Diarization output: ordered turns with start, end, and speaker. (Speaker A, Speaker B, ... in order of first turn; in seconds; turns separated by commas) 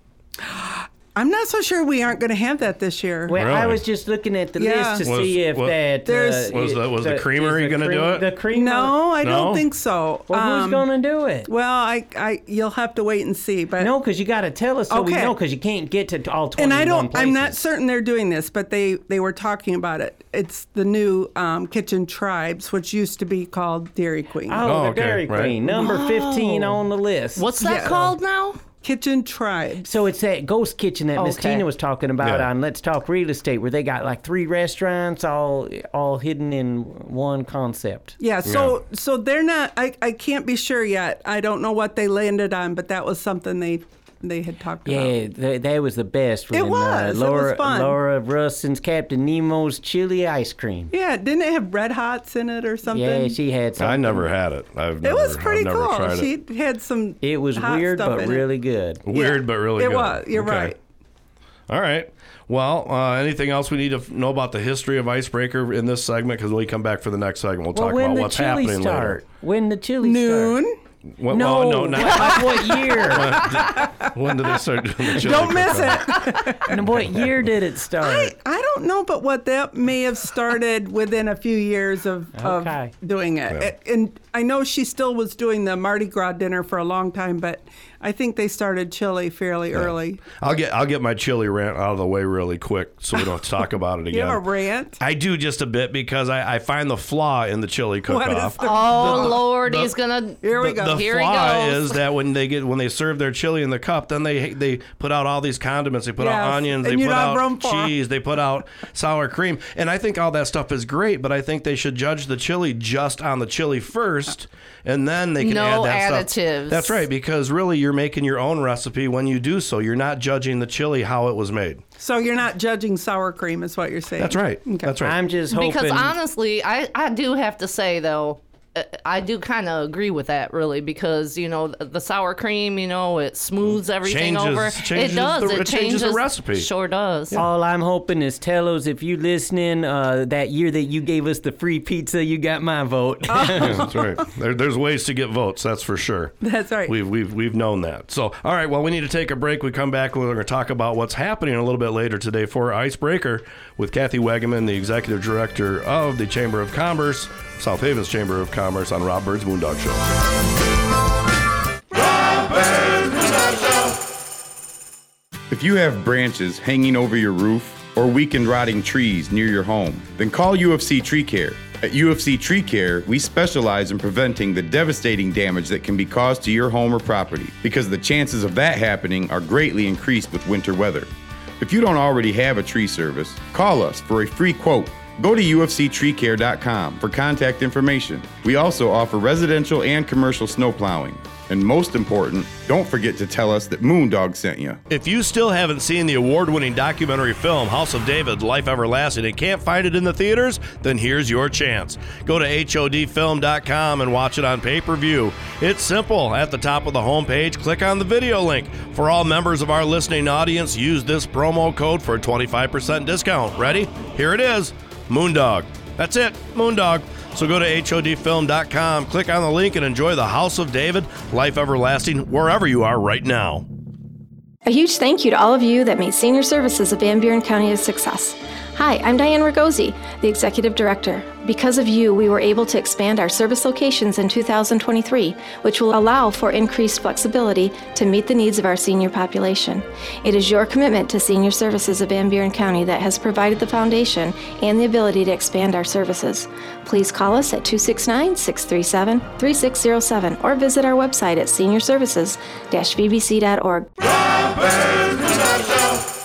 Speaker A: 0.5-3.4, Speaker B: 3.3-9.0, Speaker C: 3.3-3.8, Speaker A: 4.6-5.1, Speaker C: 5.0-5.8, Speaker A: 6.1-6.4, Speaker C: 6.5-8.3, Speaker A: 8.5-10.9, Speaker C: 9.2-9.7, Speaker B: 10.3-11.5, Speaker A: 11.5-13.9, Speaker B: 13.8-17.7, Speaker A: 14.9-15.4, Speaker A: 16.6-24.7, Speaker B: 24.5-27.5, Speaker C: 24.6-25.6, Speaker D: 25.8-26.8, Speaker D: 27.4-28.6, Speaker A: 27.6-28.2, Speaker A: 28.8-29.9, Speaker B: 29.8-38.2, Speaker A: 31.2-31.6, Speaker C: 32.2-32.5, Speaker A: 38.2-45.1, Speaker C: 38.5-38.8, Speaker B: 44.9-50.9, Speaker A: 46.5-48.0, Speaker A: 50.9-53.4, Speaker B: 52.9-54.3, Speaker C: 53.8-56.3, Speaker A: 55.0-58.5, Speaker B: 57.2-59.0, Speaker C: 59.0-60.8, Speaker A: 59.1-60.8, Speaker C: 61.7-69.2, Speaker B: 67.7-70.6, Speaker A: 70.0-70.8, Speaker C: 71.2-76.3, Speaker B: 71.3-73.3, Speaker A: 72.5-73.0, Speaker A: 73.5-74.1, Speaker A: 75.1-76.8, Speaker B: 76.7-78.3, Speaker C: 76.9-77.3, Speaker A: 78.0-90.2, Speaker B: 82.3-82.9, Speaker C: 89.7-94.4, Speaker A: 94.1-95.0, Speaker C: 95.0-99.9, Speaker A: 98.1-99.6, Speaker D: 98.6-102.0, Speaker A: 100.4-101.1, Speaker C: 100.5-121.8, Speaker A: 106.2-107.9, Speaker D: 115.4-117.1, Speaker A: 122.0-125.0, Speaker C: 124.2-125.2, Speaker B: 125.0-126.2, Speaker D: 125.5-137.4, Speaker C: 133.7-136.7, Speaker B: 137.3-143.8, Speaker A: 143.3-144.1, Speaker C: 143.6-160.0, Speaker A: 146.4-146.9, Speaker E: 165.5-194.8, Speaker C: 194.9-223.7, Speaker F: 224.7-253.9